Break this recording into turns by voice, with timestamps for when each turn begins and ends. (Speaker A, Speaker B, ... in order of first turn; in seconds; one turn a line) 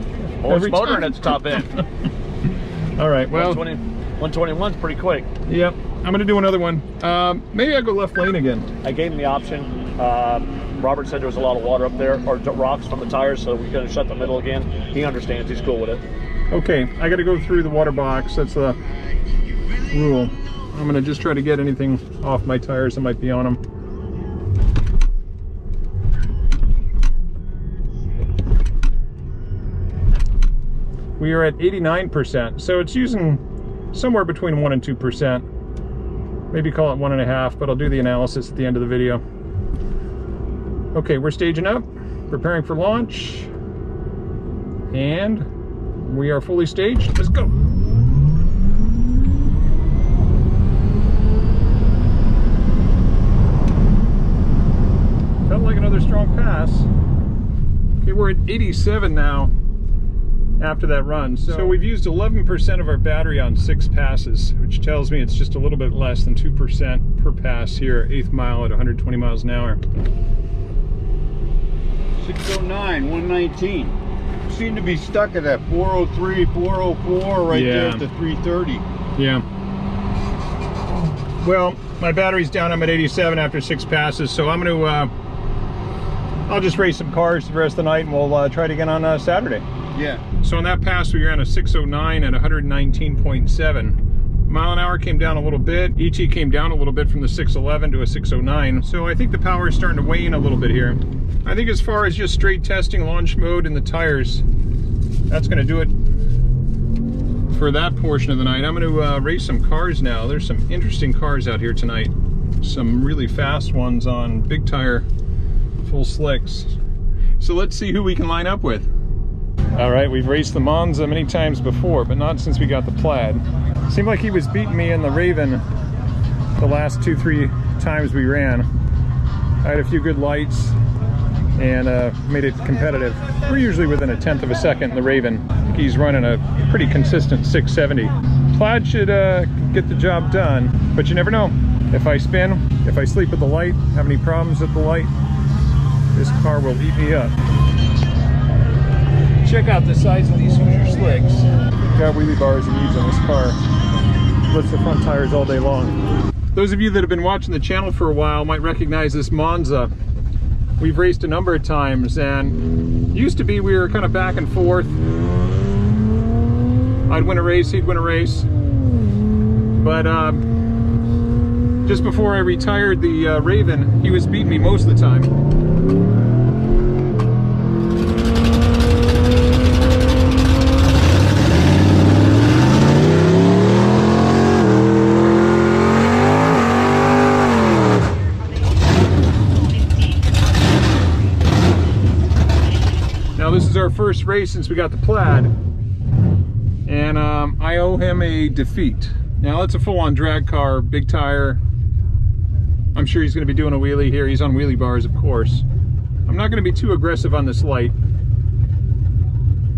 Speaker A: 0.4-1.7
Speaker B: 0.4-1.6
Speaker B: 3.0-3.6
Speaker A: 3.3-5.3
Speaker B: 5.5-8.7
Speaker A: 8.8-16.0
Speaker B: 16.5-18.8
Speaker B: 19.9-23.6
Speaker B: 31.2-35.4
Speaker B: 36.5-39.2
Speaker B: 40.9-43.5
Speaker B: 44.9-45.5
Speaker B: 46.0-47.5
Speaker B: 55.5-56.9
Speaker B: 58.0-59.5
Speaker B: 60.6-69.8
Speaker C: 72.2-78.8
Speaker B: 77.5-78.0
Speaker B: 79.2-79.4
Speaker B: 81.4-85.1
Speaker B: 86.5-89.7
Speaker C: 89.9-90.2
Speaker B: 90.4-104.4
Speaker B: 105.3-105.9
Speaker B: 107.5-115.0
Speaker B: 115.8-116.8
Speaker B: 117.4-118.9
Speaker B: 119.8-125.6
Speaker B: 126.6-128.7
Speaker B: 129.6-130.8
Speaker B: 131.6-145.1
Speaker B: 146.1-147.3
Speaker B: 149.4-153.6
Speaker B: 154.5-156.0
Speaker B: 156.5-159.9
Speaker B: 160.8-165.0
Speaker B: 167.1-168.5
Speaker B: 169.8-170.4
Speaker B: 171.8-175.3
Speaker B: 193.4-195.5
Speaker B: 196.9-201.6
Speaker B: 202.9-205.6
Speaker B: 206.2-207.9